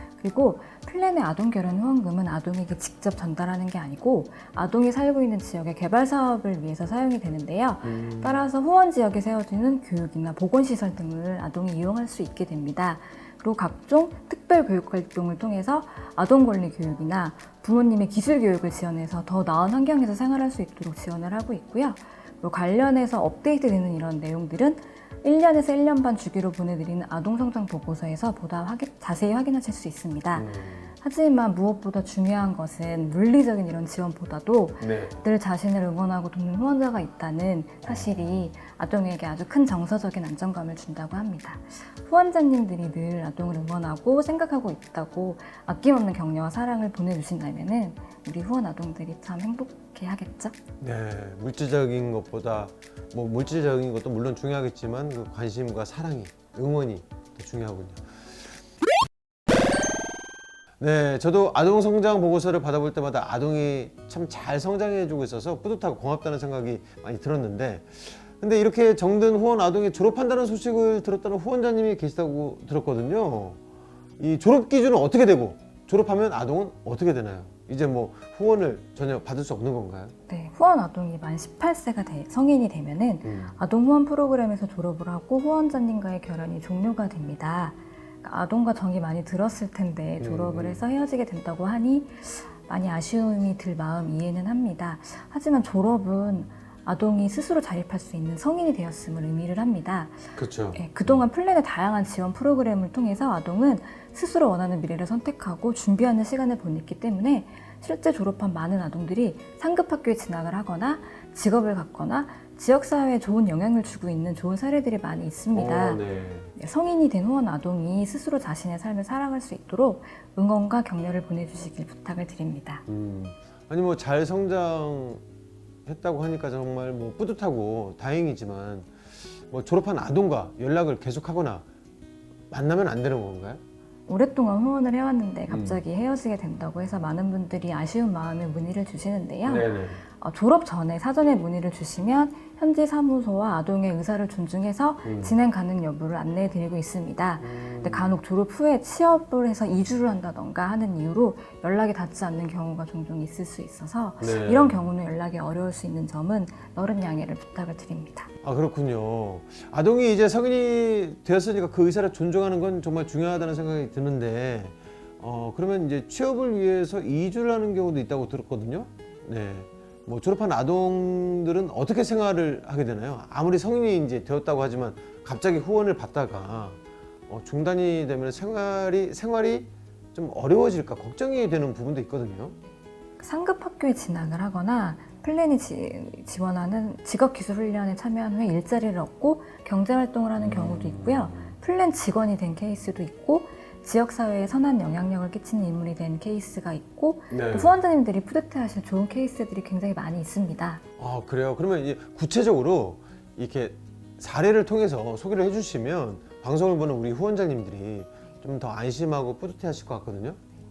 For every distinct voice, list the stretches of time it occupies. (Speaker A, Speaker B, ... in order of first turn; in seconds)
Speaker A: 0.2-50.6, 80.3-116.0, 116.5-122.8, 134.1-158.3, 183.2-200.8
Speaker B: 7.8-8.4, 30.3-30.9, 34.8-35.2, 37.9-38.1, 50.8-58.0, 60.8-73.6, 74.2-80.1, 83.2-83.6, 90.2-90.8, 100.3-100.9, 115.5-116.5, 122.9-125.2, 125.8-128.9, 129.5-131.7, 132.5-133.6, 135.5-135.8, 139.4-140.0, 145.0-145.3, 147.4-148.2, 154.2-154.8, 158.4-182.5, 190.3-191.6, 197.3-197.8, 201.0-210.4